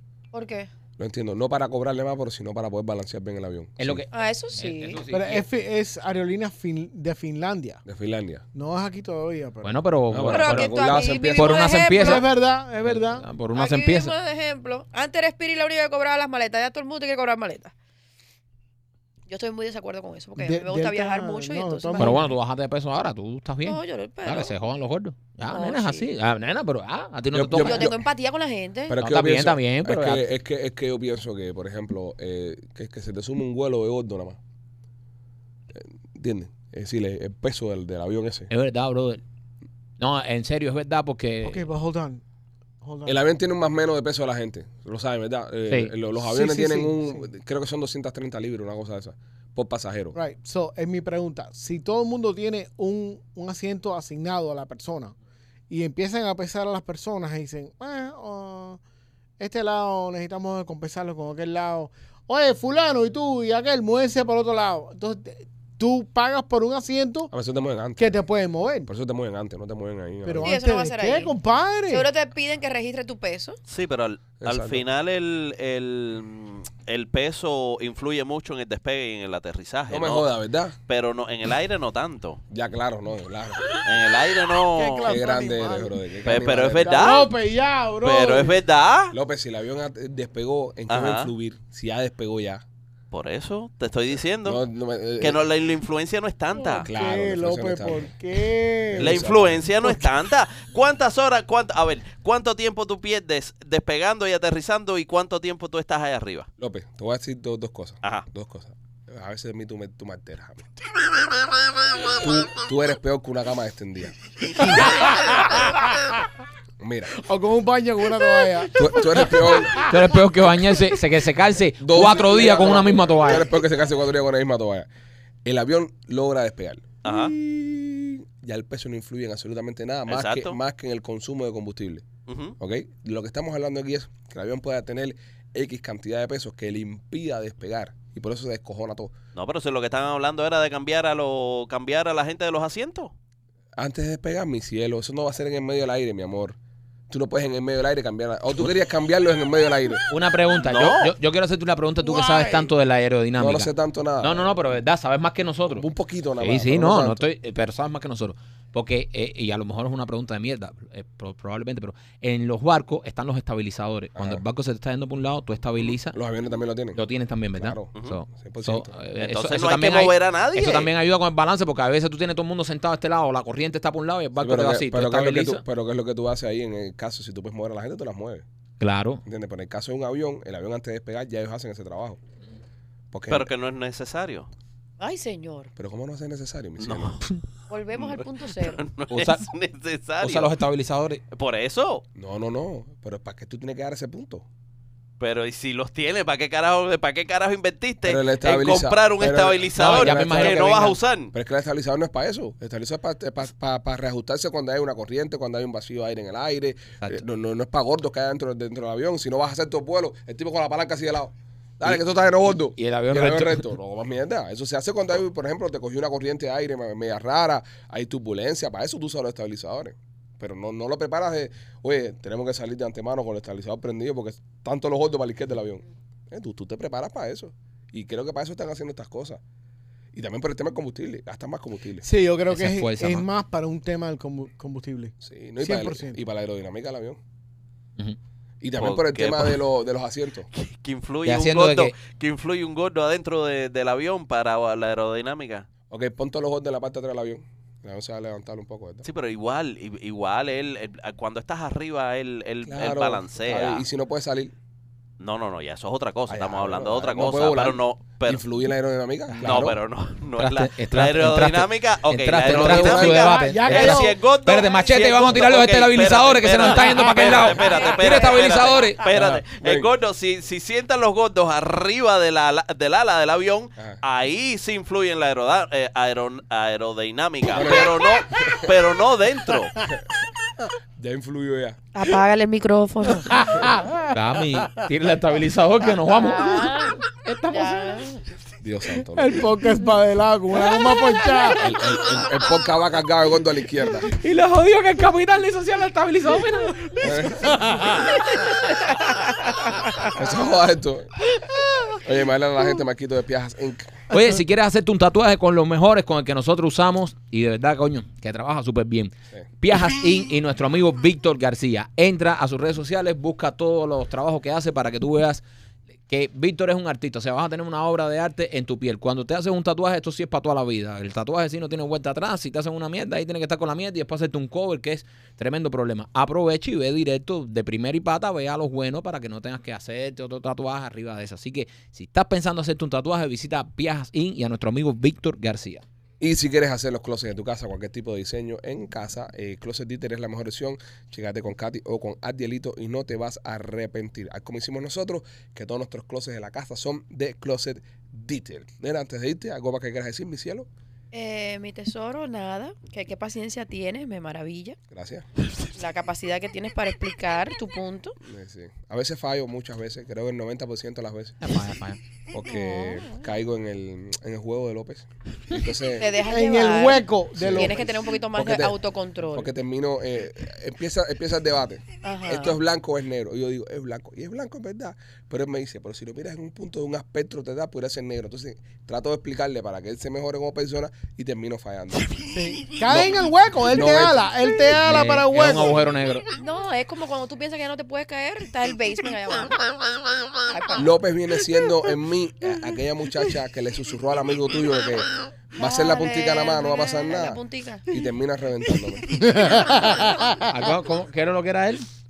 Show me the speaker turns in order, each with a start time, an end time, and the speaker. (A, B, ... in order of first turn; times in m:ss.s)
0:00.3-0:00.7 A
0:01.0-0:04.0 B
0:03.8-0:05.4 C
0:04.1-0:05.0 A
0:05.1-0:07.8 D
0:07.8-0:08.4 B
0:08.5-0:09.8 D
0:09.6-0:12.3 C
0:10.1-0:11.6 B
0:10.3-0:12.2 A
0:12.0-0:13.3 D
0:12.8-0:14.1 C
0:13.5-0:17.7 A
0:19.3-0:22.3 A
0:20.4-0:22.3 D
0:22.0-0:27.9 C
0:23.6-0:24.5 A
0:25.5-0:26.1 A
0:27.3-0:28.0 B
0:27.6-0:29.0 A
0:28.9-0:34.4 B
0:29.0-0:30.2 C
0:35.7-0:38.5 B
0:38.5-0:39.2 C
0:40.0-0:41.7 C
0:41.4-0:42.2 D
0:42.8-0:43.2 D
0:43.0-0:50.2 B
0:46.2-0:47.3 D
0:50.1-0:55.1 D
0:55.7-0:58.8 D
0:59.4-1:07.3 D
1:07.3-1:08.2 B
1:08.0-1:08.9 D
1:08.9-1:10.6 B
1:10.2-1:12.1 D
1:10.4-1:11.3 A
1:11.9-1:13.6 A
1:13.7-1:20.3 E
1:14.4-1:14.8 B
1:19.9-1:20.8 B
1:20.9-1:22.4 E
1:22.5-1:23.8 B
1:23.8-1:25.2 E
1:24.7-1:28.6 D
1:25.0-1:27.1 B
1:26.2-1:27.3 E
1:28.0-1:29.1 E
1:29.1-1:32.6 B
1:30.9-1:31.3 E
1:33.1-1:34.6 E
1:34.4-1:35.4 B
1:35.2-1:36.9 E
1:36.6-1:39.2 D
1:36.8-1:38.1 B
1:38.9-1:39.6 B
1:38.9-1:46.5 E
1:46.6-1:50.8 B
1:52.1-1:54.2 B
1:54.6-1:55.8 D
1:56.8-1:57.1 B
1:57.1-2:00.0 D
1:58.7-1:59.8 B
1:59.8-2:03.5 C
2:01.8-2:04.9 B
2:05.4-2:12.0 B
2:07.0-2:07.3 E
2:10.1-2:10.6 E
2:12.3-2:12.5 E
2:12.6-2:19.1 B
2:19.3-2:23.1 E
2:23.8-2:26.6 B
2:27.1-2:30.1 B
2:30.1-2:35.8 C
2:30.7-2:31.2 E
2:32.1-2:32.6 B
2:33.4-2:34.6 B
2:35.7-2:37.2 B
2:36.4-2:46.2 C
2:44.2-2:44.4 B
2:46.1-2:47.0 B
2:46.9-2:55.6 C
2:47.6-2:49.0 B
2:49.1-2:50.9 E
2:54.4-2:58.4 B
2:58.8-2:59.2 C
2:59.2-3:02.2 B
3:03.1-3:03.5 B
3:03.3-3:04.5 E
3:05.0-3:05.7 A
3:05.8-3:07.2 B
3:06.8-3:07.3 E
3:07.7-3:08.8 A
3:08.0-3:10.5 E
3:09.1-3:09.4 C
3:10.2-3:11.2 C
3:11.3-3:12.0 E
3:12.1-3:14.4 B
3:15.2-3:21.3 E
3:18.0-3:49.4 B
3:19.8-3:21.0 C
3:32.5-3:33.6 C
3:50.1-3:52.1 B
3:52.0-3:56.2 D
3:52.5-3:53.3 C
3:55.2-3:57.2 B
3:58.6-4:00.5 B
3:58.8-3:59.6 E
4:00.5-4:05.6 E
4:01.2-4:02.0 C
4:05.9-4:09.0 B
4:09.0-4:13.8 E
4:12.6-4:14.5 B
4:15.2-4:18.4 E
4:16.3-4:19.8 B
4:19.3-4:19.7 C
4:19.4-4:39.8 E
4:20.3-4:29.1 C
4:22.4-4:23.2 B
4:23.1-4:24.2 D
4:27.5-4:28.9 A
4:29.1-4:29.9 B
4:37.5-4:38.7 B
4:39.8-4:40.2 B
4:41.0-4:41.8 B
4:41.9-4:43.7 A
4:43.3-4:48.2 C
4:43.6-4:44.6 D
4:46.1-4:48.1 A
4:48.6-4:49.4 B
4:49.0-4:51.7 D
4:51.6-4:54.1 B
4:54.1-4:57.2 C
4:57.0-4:58.0 B
4:57.6-4:58.0 D
4:58.3-4:58.6 C
4:59.0-4:59.9 A
5:00.0-5:01.1 B
5:02.0-5:04.0 B
5:04.1-5:15.4 C
5:16.1-5:35.8 C
5:36.2-5:50.7 B
5:51.1-5:54.8 A
5:54.9-5:55.2 B
5:55.8-5:58.2 A
5:58.2-6:01.4 B
6:01.4-6:02.0 C
6:02.3-6:06.1 B
6:02.5-6:03.2 A
6:06.0-6:09.5 A
6:06.2-6:08.1 D
6:07.3-6:08.8 B
6:09.3-6:22.3 B
6:12.0-6:12.6 A
6:22.3-6:25.9 D
6:22.8-6:24.2 B
6:24.8-6:26.2 C
6:26.4-6:29.6 A
6:30.5-6:31.0 A
6:30.8-6:39.6 B
6:35.6-6:37.9 A
6:39.2-6:40.5 D
6:40.4-6:41.9 C